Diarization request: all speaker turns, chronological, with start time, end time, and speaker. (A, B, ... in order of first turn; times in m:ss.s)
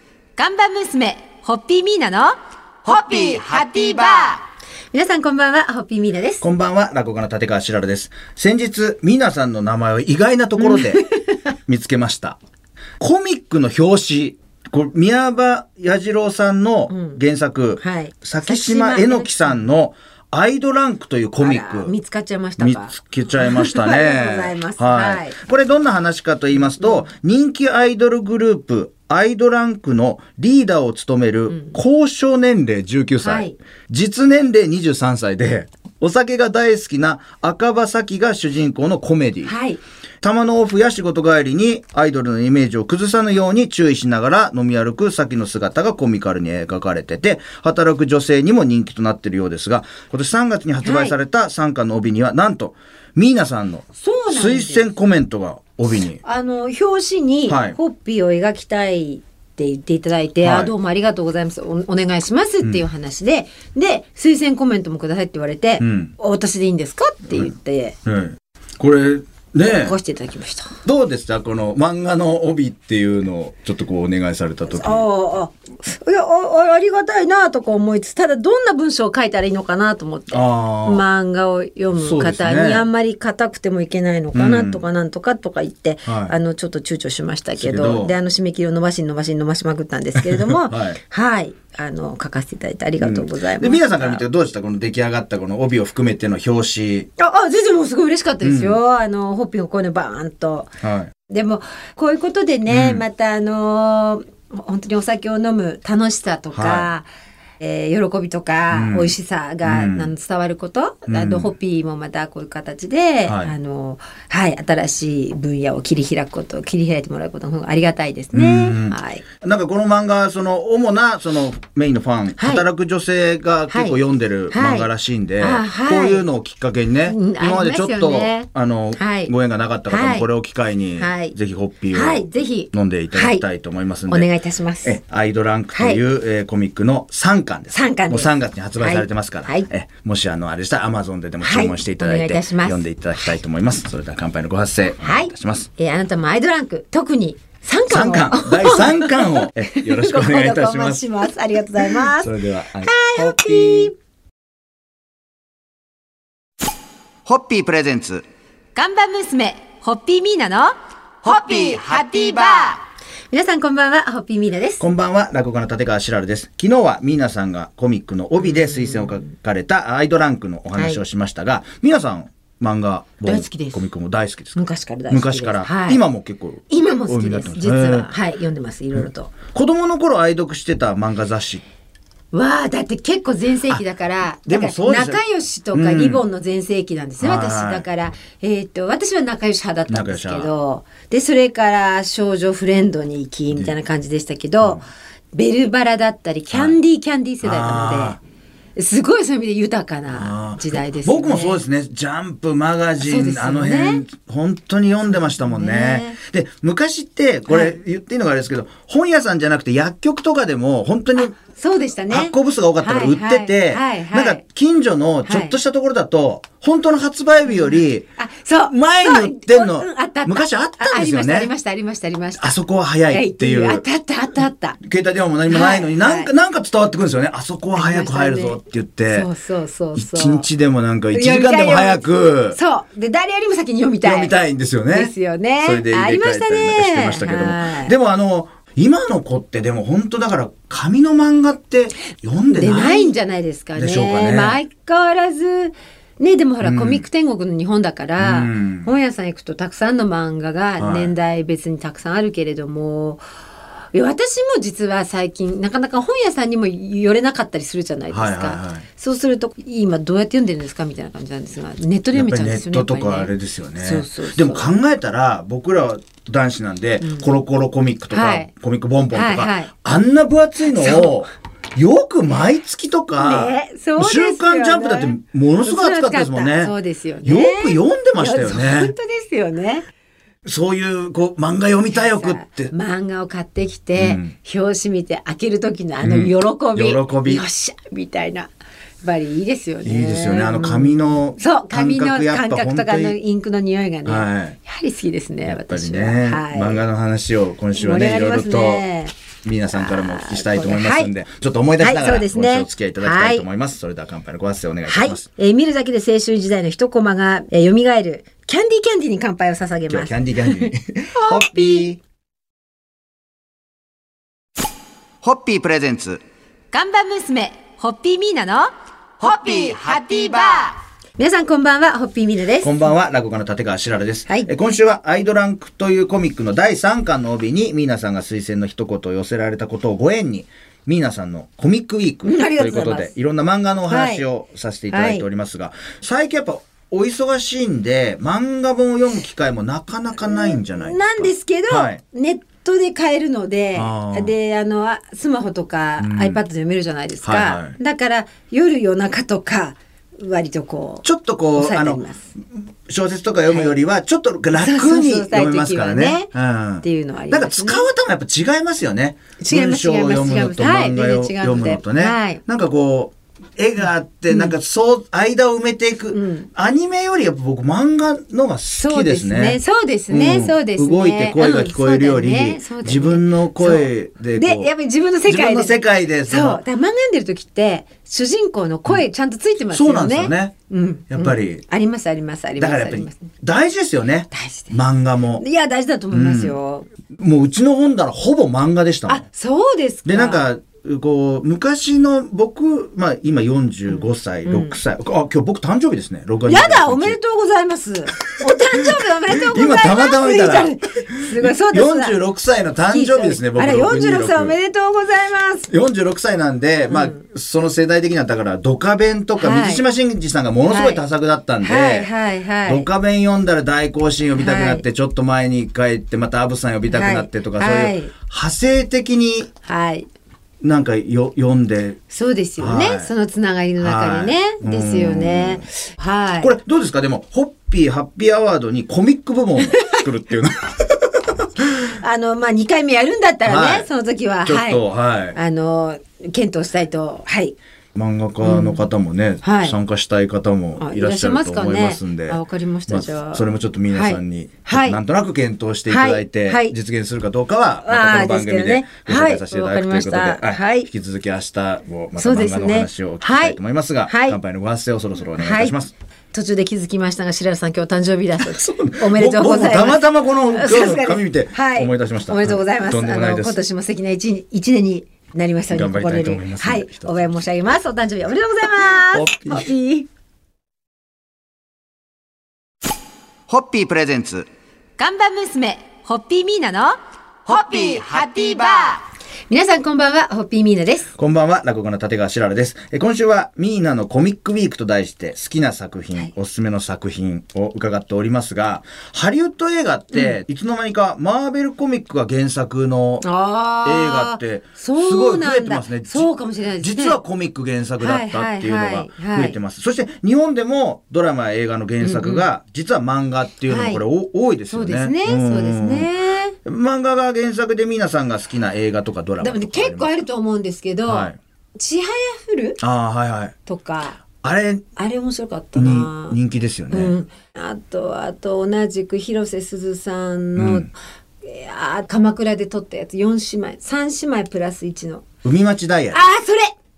0:00.4-0:06.4 A
0:06.4-0:11.0 B
0:10.6-0:11.2 A
0:11.6-0:12.4 B
0:13.0-0:21.9 B
0:16.9-0:17.2 A
0:17.8-0:19.6 A
0:21.4-0:25.4 A
0:22.6-0:39.5 B
0:26.6-0:27.0 A
0:31.5-0:31.8 A
0:33.2-0:33.6 A
0:39.4-0:39.8 A
0:40.2-0:56.2 B
0:50.8-0:51.2 A
0:54.0-0:54.9 A
0:56.2-1:08.0 A
0:57.5-0:57.8 B
1:00.4-1:00.7 B
1:05.8-1:06.1 B
1:08.0-1:09.9 B
1:09.6-1:10.7 A
1:10.8-1:15.0 B
1:14.7-1:34.2 A
1:20.3-1:21.0 B
1:21.9-1:22.9 B
1:24.3-1:24.8 B
1:26.1-1:26.3 B
1:27.6-1:28.1 B
1:30.2-1:31.0 B
1:33.0-1:37.1 B
1:37.2-1:40.7 A
1:38.4-1:38.8 B
1:40.8-1:41.1 B
1:41.3-1:47.1 A
1:42.7-1:43.0 B
1:46.5-1:46.9 B
1:47.6-1:59.2 A
1:48.7-1:50.1 B
1:51.0-1:51.5 B
1:53.2-1:53.5 B
1:58.3-2:14.3 B
2:02.4-2:02.6 A
2:03.7-2:04.0 A
2:04.5-2:06.2 A
2:07.0-2:09.3 A
2:09.9-2:10.2 A
2:11.0-2:11.3 A
2:11.9-2:13.4 A
2:14.1-2:15.0 A
2:14.8-2:25.7 B
2:15.7-2:16.0 A
2:17.7-2:19.7 A
2:21.4-2:22.8 A
2:25.0-2:33.9 A
2:27.9-2:31.0 B
2:32.0-2:33.9 B
2:37.2-2:38.2 B
2:38.7-2:44.8 A
2:44.8-2:58.1 B
2:48.4-2:49.2 A
2:50.7-2:51.0 A
2:53.2-2:53.8 A
2:54.6-2:56.0 A
2:56.7-2:59.3 A
2:58.9-3:01.6 B
3:02.3-3:14.8 A
3:04.4-3:05.2 B
3:05.7-3:06.2 B
3:07.2-3:07.8 B
3:09.9-3:10.5 B
3:15.3-3:18.2 A
3:16.5-3:16.8 B
3:17.4-3:18.2 B
3:18.8-3:21.6 A
3:20.1-3:31.4 B
3:23.0-3:24.0 A
3:25.1-3:26.2 A
3:27.5-3:27.8 A
3:31.2-3:34.4 A
3:32.1-3:38.0 B
3:35.2-3:35.6 A
3:37.4-3:42.5 A
3:38.7-3:41.5 B
3:42.4-3:43.8 B
3:43.1-3:44.8 A
3:44.8-3:49.3 B
3:45.5-3:46.3 A
3:47.7-3:50.5 A
3:49.9-3:52.6 B
3:51.1-3:54.3 A
3:54.0-4:03.1 B
3:54.9-3:57.9 A
4:02.5-4:13.2 A
4:03.7-4:04.6 B
4:06.6-4:07.0 B
4:08.2-4:08.9 B
4:10.8-4:11.1 B
4:13.9-4:24.7 A
4:18.1-4:18.8 B
4:22.1-4:36.7 B
4:27.0-4:27.3 A
4:28.1-4:28.5 A
4:29.1-4:29.7 A
4:30.7-4:31.1 A
4:33.2-4:39.8 A
4:37.2-4:38.9 B
4:40.4-4:42.7 B
4:41.9-4:48.5 A
4:44.0-4:44.3 B
4:46.0-4:47.4 B
4:49.0-4:56.8 A
4:49.8-4:53.2 B
4:54.0-4:54.6 B
4:55.4-4:58.8 B
4:57.7-4:59.1 A
4:59.4-5:05.3 B
4:59.7-5:01.1 A
5:01.8-5:03.4 A
5:04.9-5:11.9 A
5:09.9-5:12.0 B
5:15.2-5:16.2 B
5:16.7-5:22.8 A
5:22.6-5:42.0 B
5:32.2-5:33.1 A
5:33.9-5:34.2 A
5:34.9-5:35.2 A
5:40.2-5:52.3 A
5:43.7-5:44.3 B
5:46.0-5:46.4 B
5:47.2-5:47.8 B
5:51.0-5:52.0 B
5:52.9-6:14.7 B
5:54.6-5:56.3 A
5:56.8-5:57.9 A
5:59.4-6:02.4 A
6:04.3-6:04.6 A
6:06.1-6:06.5 A
6:08.8-6:23.3 A
6:15.2-6:16.6 B
6:19.7-6:20.5 B
6:21.1-6:21.6 B
6:22.6-6:25.4 B
6:24.3-6:24.7 A
6:25.4-6:26.8 A
6:26.1-6:26.6 B
6:27.1-6:29.2 B
6:29.1-6:30.5 A
6:30.0-6:37.2 B
6:33.9-6:34.8 A
6:36.5-6:42.2 A
6:38.3-6:44.5 B
6:42.9-6:45.7 A
6:45.7-6:52.1 B
6:46.9-6:47.2 A
6:49.4-6:49.8 A
6:50.6-6:51.0 A
6:51.6-6:52.9 A
6:52.6-6:59.5 B
6:54.4-6:54.8 A
6:56.9-6:58.1 A
6:59.6-7:00.1 A
7:00.6-7:02.0 B
7:02.1-7:06.5 A
7:02.6-7:03.1 B
7:03.8-7:05.6 B
7:06.4-7:11.5 B
7:09.6-7:10.0 A
7:11.6-7:17.6 A
7:13.4-7:13.9 B
7:14.4-7:15.4 B
7:17.9-7:35.9 B
7:18.4-7:18.8 A
7:19.4-7:19.8 A
7:20.8-7:25.0 A
7:25.9-7:26.7 A
7:27.8-7:30.9 A
7:32.1-7:34.4 A
7:35.4-7:35.8 A
7:36.3-7:50.1 A
7:38.4-7:43.6 B
7:45.7-7:47.3 B
7:49.1-7:49.7 B
7:53.5-7:54.5 B
7:55.0-8:01.1 A
8:01.1-8:13.2 B
8:13.2-8:17.2 A
8:13.8-8:16.3 B
8:16.8-8:26.1 B
8:18.0-8:19.6 A
8:22.0-8:22.5 A
8:23.6-8:24.0 A
8:24.7-8:26.6 A
8:26.6-8:30.1 B
8:29.4-8:32.8 A
8:31.0-8:31.4 B
8:32.8-8:33.5 B
8:33.7-8:34.2 A
8:34.3-8:34.8 B
8:35.0-8:36.4 A
8:35.8-8:37.1 B
8:36.9-8:40.9 A
8:40.6-8:40.9 B
8:41.4-8:45.2 A
8:45.4-8:46.2 B
8:46.1-8:46.7 A